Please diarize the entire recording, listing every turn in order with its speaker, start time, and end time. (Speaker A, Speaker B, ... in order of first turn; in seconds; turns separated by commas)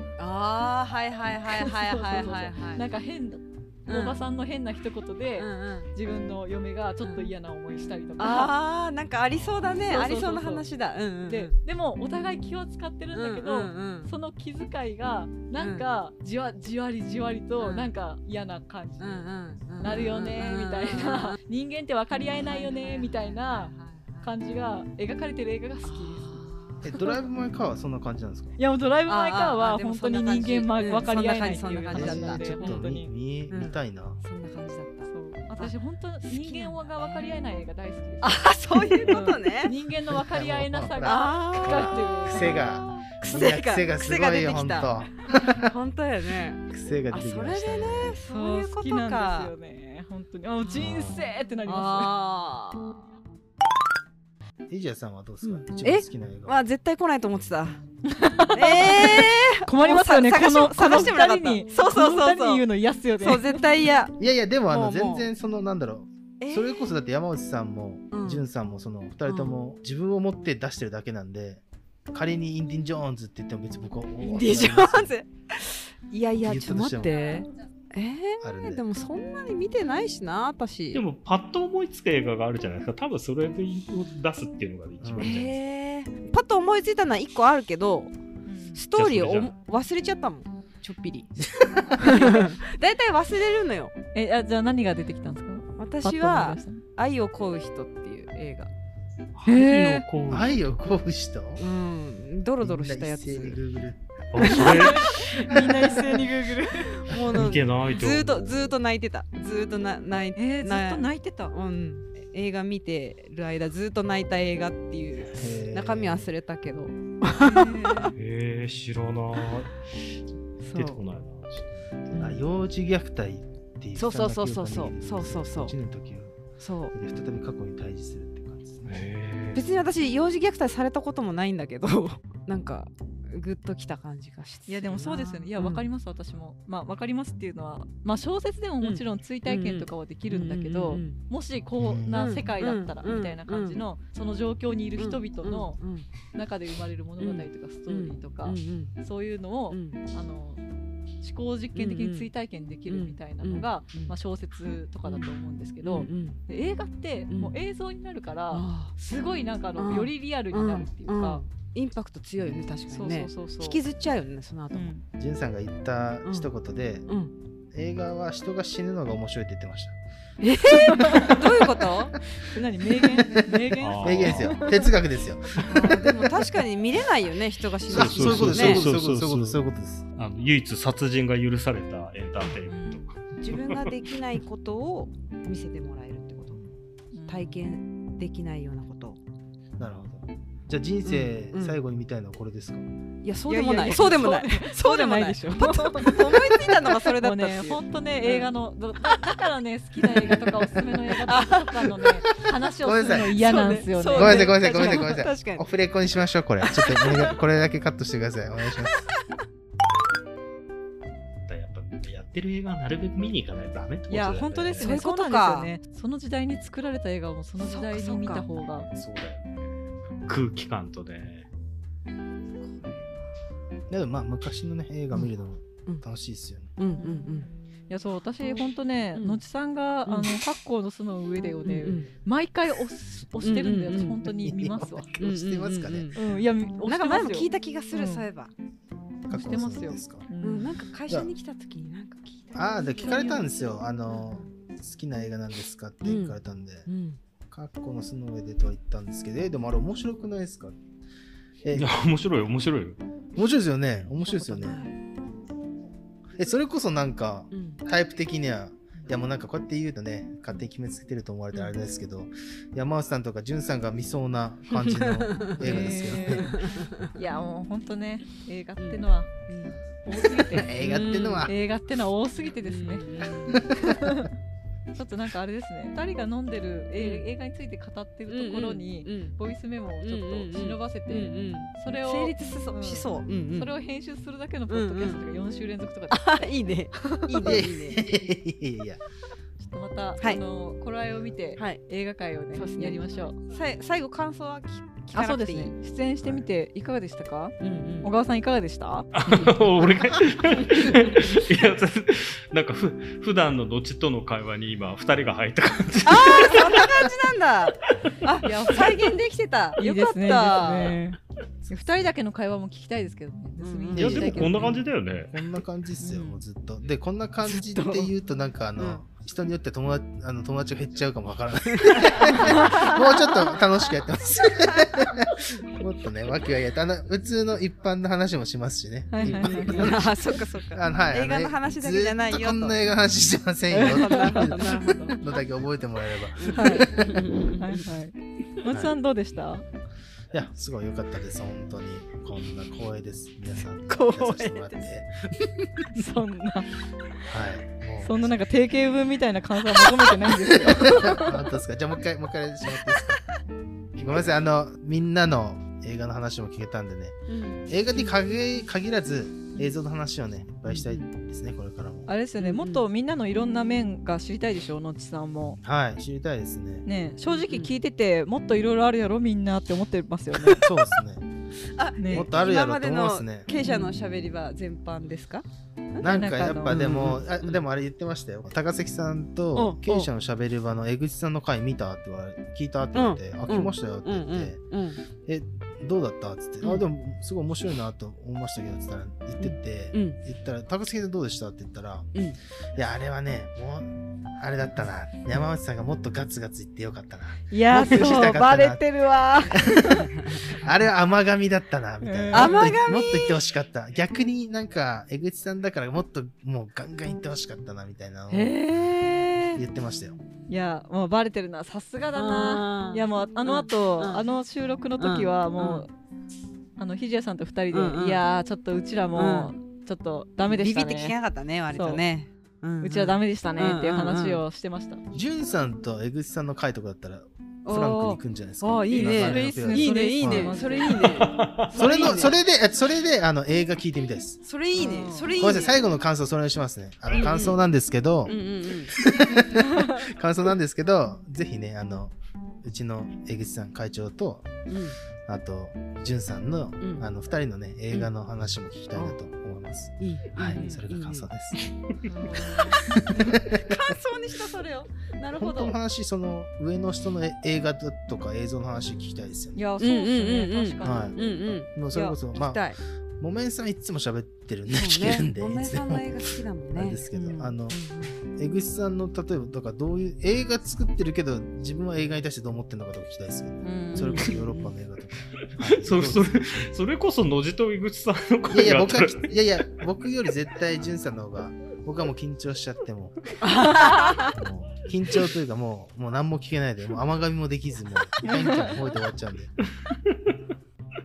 Speaker A: 0.2-2.8, Speaker B: 1.5-8.6, Speaker A: 3.9-4.2, Speaker A: 5.4-5.9, Speaker A: 7.0-7.3, Speaker A: 8.2-11.5, Speaker B: 9.7-10.7, Speaker B: 11.3-27.1, Speaker A: 13.1-14.1, Speaker A: 15.6-15.9, Speaker A: 17.6-17.9, Speaker A: 19.0-21.4, Speaker A: 22.2-24.3, Speaker A: 25.8-27.1, Speaker C: 26.8-28.6, Speaker B: 28.6-33.1, Speaker A: 29.1-32.8, Speaker C: 31.9-34.2, Speaker A: 33.5-35.7, Speaker B: 35.1-38.5, Speaker A: 36.3-37.3, Speaker A: 38.2-39.8, Speaker B: 39.0-42.6, Speaker C: 40.1-45.7, Speaker A: 41.0-44.9, Speaker A: 45.6-49.5, Speaker C: 46.7-48.2, Speaker B: 48.3-52.2, Speaker C: 50.8-51.3, Speaker A: 51.7-52.9, Speaker C: 54.7-56.6, Speaker A: 55.4-57.8, Speaker B: 58.1-63.6, Speaker A: 58.5-62.7, Speaker A: 63.2-64.2, Speaker C: 64.2-75.1, Speaker A: 64.7-65.3, Speaker A: 66.4-66.9, Speaker A: 68.1-68.5, Speaker A: 69.3-69.5, Speaker A: 74.2-81.0, Speaker C: 76.4-77.3, Speaker C: 78.4-78.8, Speaker D: 80.9-85.6, Speaker C: 85.0-85.5, Speaker A: 85.2-88.1, Speaker B: 88.5-88.8, Speaker A: 88.8-93.9, Speaker D: 88.9-89.5, Speaker C: 91.5-92.3, Speaker B: 94.1-96.8, Speaker A: 95.8-98.7, Speaker D: 99.4-101.0, Speaker B: 99.5-100.0, Speaker C: 100.3-101.6, Speaker A: 101.6-103.6, Speaker C: 102.6-104.4, Speaker D: 104.3-105.5, Speaker A: 104.4-105.0, Speaker B: 104.5-107.0, Speaker A: 105.5-106.2, Speaker A: 106.9-118.1, Speaker D: 107.2-108.8, Speaker B: 110.4-111.5, Speaker C: 115.4-116.3, Speaker B: 117.3-118.1, Speaker D: 118.2-119.9, Speaker A: 120.6-121.0, Speaker D: 120.6-121.8, Speaker A: 122.1-122.4, Speaker C: 122.2-126.4, Speaker A: 124.0-125.7, Speaker A: 126.6-126.9, Speaker C: 126.9-128.9, Speaker D: 128.9-129.6, Speaker A: 129.6-135.9, Speaker B: 134.7-145.8, Speaker A: 138.8-141.2, Speaker C: 141.8-142.3, Speaker A: 142.1-143.8, Speaker A: 145.0-146.1, Speaker B: 146.3-150.6, Speaker A: 147.2-148.9, Speaker A: 149.7-150.0, Speaker B: 151.2-161.4, Speaker A: 151.8-152.3, Speaker A: 152.9-154.1, Speaker A: 155.1-156.4, Speaker A: 157.3-157.6, Speaker A: 158.5-158.9, Speaker A: 159.8-164.9, Speaker B: 162.9-163.8, Speaker B: 164.7-165.1, Speaker C: 165.2-167.1, Speaker A: 166.2-166.5, Speaker C: 167.7-169.9, Speaker A: 170.4-172.2, Speaker B: 170.9-171.4, Speaker B: 172.4-174.9, Speaker C: 173.6-176.3, Speaker D: 173.8-174.6, Speaker A: 175.6-178.8, Speaker D: 177.9-179.6, Speaker C: 177.9-180.0, Speaker D: 180.2-183.9, Speaker B: 182.7-183.1, Speaker A: 183.4-186.6, Speaker B: 187.1-187.6, Speaker A: 187.3-189.2, Speaker C: 189.8-192.8, Speaker A: 191.0-191.8, Speaker A: 193.2-198.5, Speaker B: 193.4-205.2, Speaker A: 201.1-202.0, Speaker C: 202.8-209.1, Speaker A: 203.4-205.7, Speaker A: 206.7-207.1, Speaker D: 211.5-214.9, Speaker B: 214.1-218.9, Speaker A: 214.8-215.7, Speaker A: 217.6-218.5, Speaker D: 218.9-219.7, Speaker D: 220.3-221.5, Speaker A: 222.6-223.3, Speaker C: 223.9-226.7, Speaker A: 226.8-227.5, Speaker B: 227.0-235.1, Speaker A: 229.2-229.4, Speaker A: 230.1-230.3, Speaker A: 231.7-232.1, Speaker A: 233.4-234.3, Speaker C: 234.4-236.1, Speaker A: 235.2-236.3, Speaker B: 236.2-238.3, Speaker A: 236.8-238.5, Speaker C: 239.3-240.2, Speaker B: 239.3-240.8, Speaker A: 240.4-243.2, Speaker C: 242.5-246.9, Speaker B: 242.7-243.9, Speaker A: 244.1-244.5, Speaker A: 246.0-247.2, Speaker C: 247.5-250.8, Speaker C: 251.6-252.0, Speaker D: 251.7-253.0, Speaker C: 253.3-254.8, Speaker A: 254.3-254.9, Speaker B: 254.3-254.9, Speaker C: 256.4-266.6, Speaker A: 257.5-257.8, Speaker A: 264.7-267.1, Speaker B: 265.6-266.6, Speaker B: 267.1-269.4, Speaker A: 268.8-269.8, Speaker B: 270.0-270.9, Speaker C: 270.5-271.5, Speaker A: 270.6-271.5, Speaker B: 271.4-274.3, Speaker A: 272.6-273.6, Speaker B: 274.9-287.6, Speaker A: 277.0-277.3, Speaker A: 278.3-279.4, Speaker A: 280.0-283.8, Speaker A: 284.7-285.2, Speaker A: 286.1-288.2, Speaker C: 287.4-289.0, Speaker B: 289.6-293.4, Speaker A: 292.6-295.7, Speaker B: 295.1-299.1, Speaker A: 297.6-298.1, Speaker D: 299.1-307.1, Speaker A: 306.1-311.0, Speaker B: 308.4-309.0, Speaker B: 309.8-314.7, Speaker A: 313.6-314.7, Speaker D: 313.9-315.3, Speaker C: 313.9-337.2, Speaker B: 316.0-316.4, Speaker A: 317.5-318.1, Speaker A: 318.8-319.0, Speaker A: 321.7-323.6, Speaker B: 329.1-329.9, Speaker A: 329.2-332.8, Speaker B: 333.7-334.9, Speaker A: 333.7-335.2, Speaker A: 336.4-337.9, Speaker B: 336.5-339.6, Speaker C: 338.7-338.9, Speaker C: 340.3-346.1, Speaker A: 343.9-344.8, Speaker B: 345.9-346.7, Speaker C: 347.3-348.4, Speaker B: 348.0-351.2, Speaker C: 350.6-353.2, Speaker A: 350.8-351.3, Speaker C: 354.0-362.1, Speaker A: 357.3-358.1, Speaker A: 360.7-361.1, Speaker B: 362.1-365.6, Speaker A: 362.4-362.8, Speaker C: 365.6-366.9, Speaker B: 366.9-370.7, Speaker C: 370.5-371.2, Speaker A: 371.7-376.1, Speaker B: 372.0-372.3, Speaker C: 372.1-373.5, Speaker B: 373.6-374.0, Speaker C: 376.0-384.6, Speaker B: 376.0-376.8, Speaker A: 376.7-377.6, Speaker A: 379.6-380.1, Speaker A: 382.9-385.0, Speaker C: 385.2-392.1, Speaker A: 389.4-390.2, Speaker C: 392.8-398.8, Speaker B: 397.5-400.1, Speaker C: 399.4-408.6, Speaker B: 402.0-402.8, Speaker A: 402.3-403.4, Speaker A: 408.3-409.6, Speaker C: 409.6-410.2, Speaker B: 410.5-415.9, Speaker A: 412.2-414.2, Speaker A: 415.0-415.9, Speaker B: 416.8-421.2, Speaker A: 417.7-418.3, Speaker A: 419.1-419.5, Speaker A: 420.5-424.4, Speaker B: 421.7-422.0, Speaker B: 422.8-425.0, Speaker C: 425.1-430.6, Speaker A: 427.6-432.4, Speaker B: 428.9-431.3, Speaker D: 431.0-431.9, Speaker C: 431.7-434.4, Speaker A: 434.4-435.8, Speaker B: 434.8-435.3, Speaker C: 435.3-444.6, Speaker A: 437.1-437.6, Speaker A: 438.3-438.9, Speaker A: 444.7-445.0, Speaker C: 445.3-451.6, Speaker A: 446.8-447.1, Speaker A: 450.0-451.3, Speaker B: 450.5-450.8, Speaker B: 452.1-452.8, Speaker A: 452.4-455.8, Speaker C: 452.6-453.9, Speaker C: 455.3-459.6, Speaker B: 459.6-461.2, Speaker A: 459.8-462.8, Speaker C: 460.8-461.2, Speaker C: 461.7-462.6, Speaker C: 463.2-467.8, Speaker A: 464.7-468.2, Speaker C: 468.4-476.4, Speaker B: 473.6-474.3, Speaker A: 474.0-474.7, Speaker D: 475.6-479.3, Speaker C: 478.5-489.5, Speaker A: 483.4-484.4, Speaker B: 488.2-488.8